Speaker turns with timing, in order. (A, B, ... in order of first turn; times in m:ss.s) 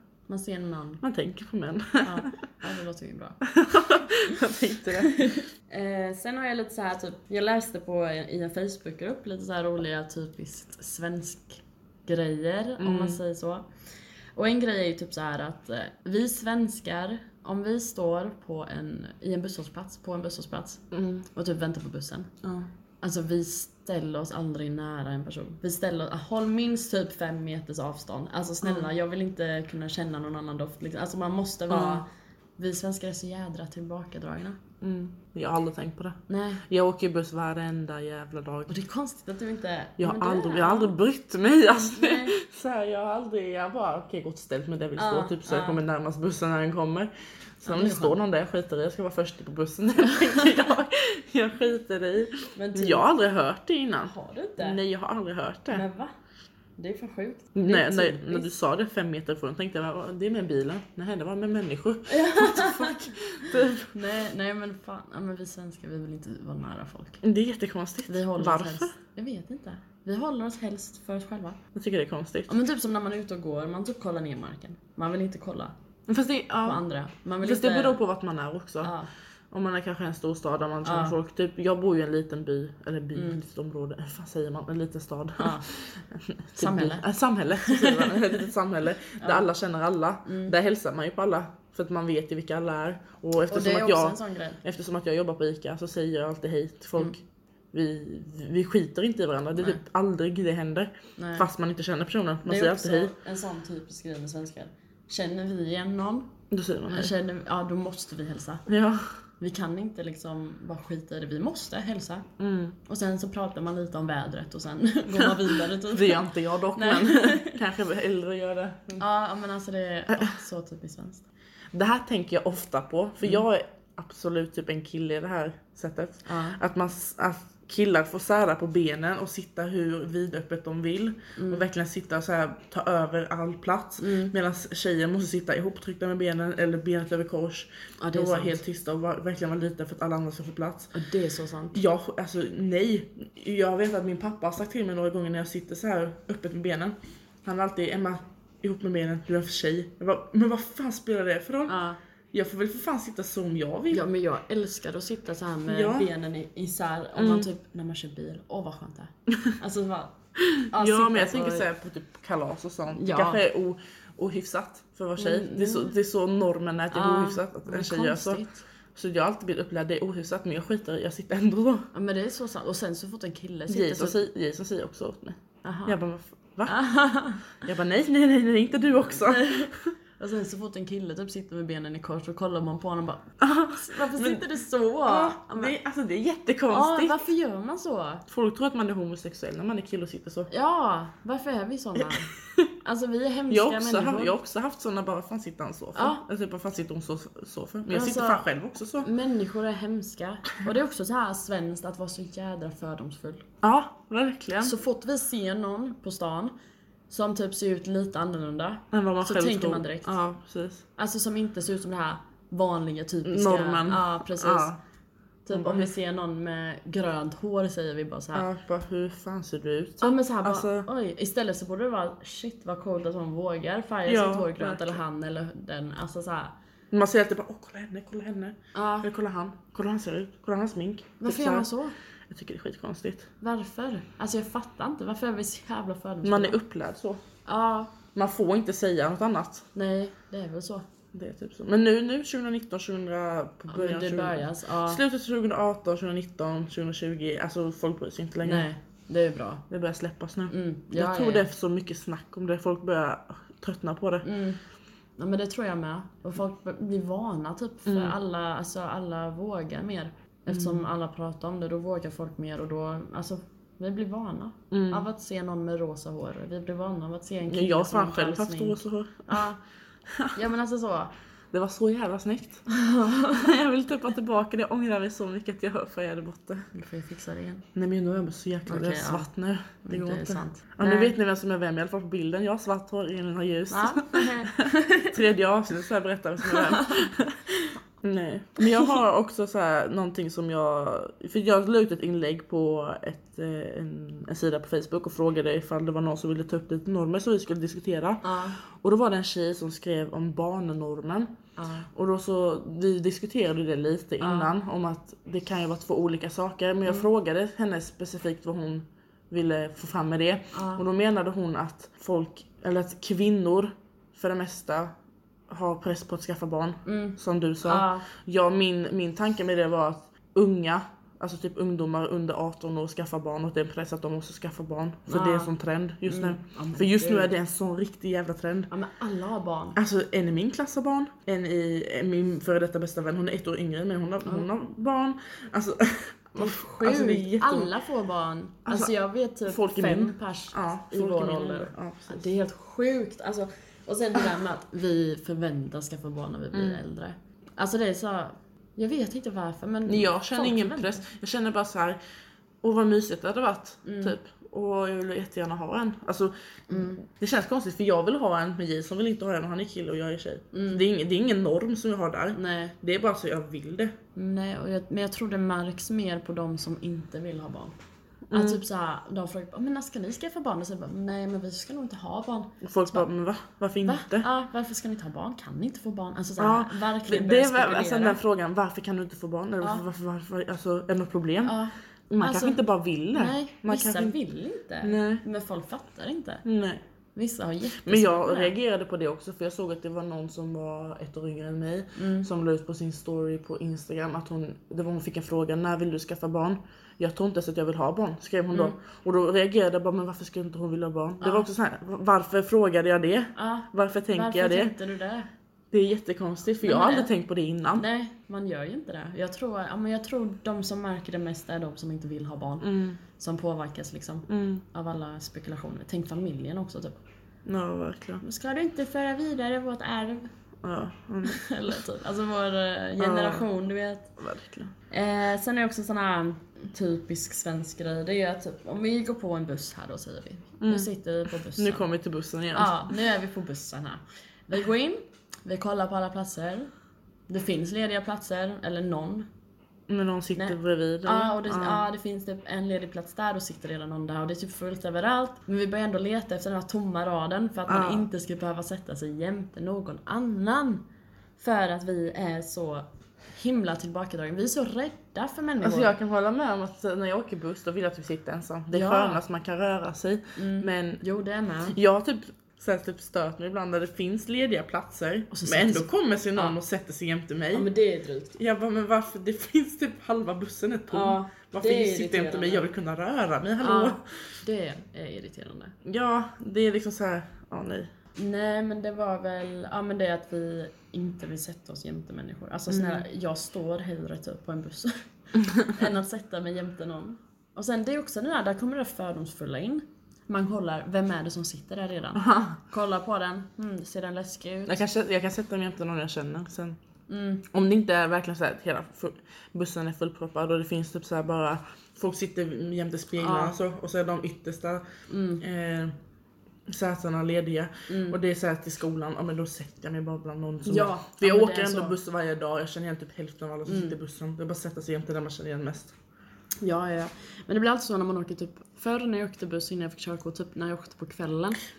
0:00.3-0:01.0 A
0:01.0-0:02.3 B
0:02.0-0:03.4 A
0:03.4-0:05.4 B
0:05.0-0:13.7 A
0:12.8-0:13.2 B
0:14.4-0:22.3 A
0:20.9-0:21.3 B
0:22.4-0:22.7 B
0:23.0-0:32.1 A
0:31.7-0:32.0 B
0:32.6-0:34.6 A
0:34.8-0:38.7 B
0:36.3-0:36.6 A
0:38.7-0:41.0 A
0:40.0-0:47.1 B
0:41.8-0:42.4 A
0:45.0-0:45.8 A
0:47.6-0:55.8 B
0:47.6-0:48.2 A
0:52.6-0:53.1 A
0:54.0-0:54.8 A
0:55.7-0:56.1 A
0:56.8-0:58.5 A
0:57.6-1:04.0 B
1:02.1-1:07.2 A
1:07.2-1:08.9 B
1:08.1-1:11.6 A
1:11.8-1:12.5 B
1:12.5-1:15.7 A
1:16.1-1:16.8 B
1:16.6-1:18.0 A
1:17.4-1:18.9 B
1:18.8-1:19.1 A
1:19.5-1:37.2 B
1:20.8-1:21.2 A
1:23.2-1:23.4 A
1:25.4-1:25.7 A
1:26.6-1:27.1 A
1:27.6-1:28.2 A
1:29.2-1:29.5 A
1:30.2-1:30.6 A
1:33.5-1:34.6 A
1:37.7-1:43.2 B
1:41.2-1:41.5 A
1:42.4-1:46.3 A
1:46.5-1:47.1 B
1:46.9-1:48.7 A
1:48.7-1:49.2 B
1:49.4-1:52.3 A
1:52.4-1:52.8 B
1:52.9-1:57.6 A
1:55.1-1:59.0 B
1:59.0-2:01.2 A
2:01.7-2:20.9 B
2:06.3-2:06.6 A
2:11.4-2:11.6 A
2:14.0-2:14.3 A
2:18.0-2:18.6 A
2:20.9-2:21.8 A
2:21.7-2:31.8 B
2:31.7-2:32.0 A
2:32.3-2:34.0 B
2:33.9-2:40.2 A
2:35.7-2:36.1 B
2:37.2-2:37.5 B
2:40.4-2:51.9 B
2:40.7-2:41.7 A
2:42.9-2:43.4 A
2:45.2-2:46.0 A
2:46.9-2:48.6 A
2:51.9-2:54.2 A
2:53.7-2:56.8 B
2:55.6-2:56.0 A
2:56.7-2:57.6 A
2:57.5-2:59.9 B
2:59.2-3:05.8 A
3:03.4-3:04.4 B
3:05.1-3:07.3 B
3:06.7-3:08.2 A
3:08.3-3:10.5 B
3:10.5-3:12.3 A
3:12.0-3:12.7 B
3:12.8-3:14.4 A
3:13.5-3:19.1 B
3:16.0-3:16.2 A
3:17.9-3:18.5 A
3:19.0-3:23.5 A
3:23.6-3:24.8 B
3:24.6-3:26.5 A
3:27.1-3:30.2 A
3:28.9-3:30.8 B
3:31.0-3:34.7 A
3:33.2-3:34.8 B
3:35.5-3:38.5 A
3:35.5-3:35.9 B
3:38.3-3:40.9 B
3:40.0-3:46.6 A
3:44.1-3:45.0 B
3:46.9-3:51.7 B
3:48.8-3:49.1 A
3:51.2-3:52.0 A
3:52.3-3:53.3 B
3:53.4-3:56.6 A
3:56.2-3:57.2 B
3:57.5-3:58.0 A
3:58.2-3:59.7 B
3:59.8-4:00.8 A
4:01.1-4:08.7 B
4:03.7-4:05.0 A
4:08.4-4:09.6 A
4:09.7-4:14.3 B
4:10.5-4:11.5 A
4:14.2-4:14.6 A
4:15.2-4:29.6 A
4:17.9-4:18.2 B
4:20.5-4:20.8 B
4:24.7-4:25.1 B
4:27.5-4:29.5 B
4:30.1-4:30.4 B
4:30.3-4:31.1 A
4:31.5-4:36.7 B
4:32.7-4:33.5 A
4:36.7-4:37.7 A
4:37.7-4:47.5 B
4:38.7-4:39.3 A
4:39.8-4:41.1 A
4:43.7-4:45.2 A
4:46.4-4:47.1 A
4:48.0-5:01.3 B
4:48.6-4:48.9 A
4:58.2-4:58.6 A
5:01.6-5:01.9 A
5:01.9-5:14.9 B
5:04.2-5:04.5 A
5:10.5-5:10.8 A
5:15.5-5:28.7 B
5:16.9-5:18.0 A
5:25.1-5:25.5 A
5:26.1-5:27.3 A
5:28.7-5:29.8 A
5:29.8-5:37.7 B
5:36.4-5:51.0 A
5:38.7-5:38.9 B
5:39.5-5:42.3 B
5:46.5-5:46.8 B
5:49.9-5:52.0 B
5:52.6-6:04.0 B
5:53.8-5:54.2 A
5:56.7-5:57.0 A
6:00.5-6:00.8 A
6:02.4-6:02.8 A
6:04.2-6:07.8 A
6:08.3-6:08.6 B
6:08.3-6:13.1 A
6:12.6-6:14.3 B
6:13.8-6:18.2 A
6:16.4-6:24.2 B
6:21.4-6:22.6 A
6:23.1-6:26.4 A
6:24.8-6:25.2 B
6:26.4-6:26.8 B
6:27.2-6:28.5 A
6:27.8-6:44.7 B
6:32.0-6:32.3 A
6:41.2-6:41.5 A
6:43.4-6:45.3 A
6:45.7-6:47.8 B
6:46.6-6:47.1 A
6:47.8-6:57.0 A
6:52.6-6:53.0 B
6:54.3-6:54.6 B
6:57.5-6:58.2 B
6:58.2-7:00.3 A
7:00.6-7:01.4 B
7:01.2-7:04.1 A
7:03.0-7:03.5 B
7:04.2-7:04.7 B
7:04.9-7:11.9 A
7:10.6-7:10.9 B
7:11.6-7:12.9 B
7:12.5-7:16.7 A
7:17.3-7:19.3 A
7:19.9-7:21.8 B
7:20.4-7:30.8 A
7:27.7-7:28.1 B
7:31.4-7:35.9 A
7:35.6-7:41.0 B
7:38.7-7:39.2 A
7:40.4-7:41.8 A
7:41.7-7:47.7 B
7:45.3-7:46.6 A
7:47.5-7:48.4 A
7:48.4-7:54.0 B
7:50.9-7:52.7 A
7:53.6-7:55.8 A
7:55.8-7:57.9 B
7:58.2-8:05.0 A
8:02.7-8:03.0 B
8:05.5-8:14.8 A
8:12.2-8:12.6 B
8:14.7-8:16.8 B
8:17.1-8:17.5 A
8:17.5-8:24.8 B
8:23.2-8:23.6 A
8:25.1-8:25.4 A
8:25.4-8:25.9 B
8:26.7-8:36.0 B
8:27.9-8:28.2 A
8:30.7-8:32.0 A
8:33.7-8:34.0 A
8:36.6-8:41.6 A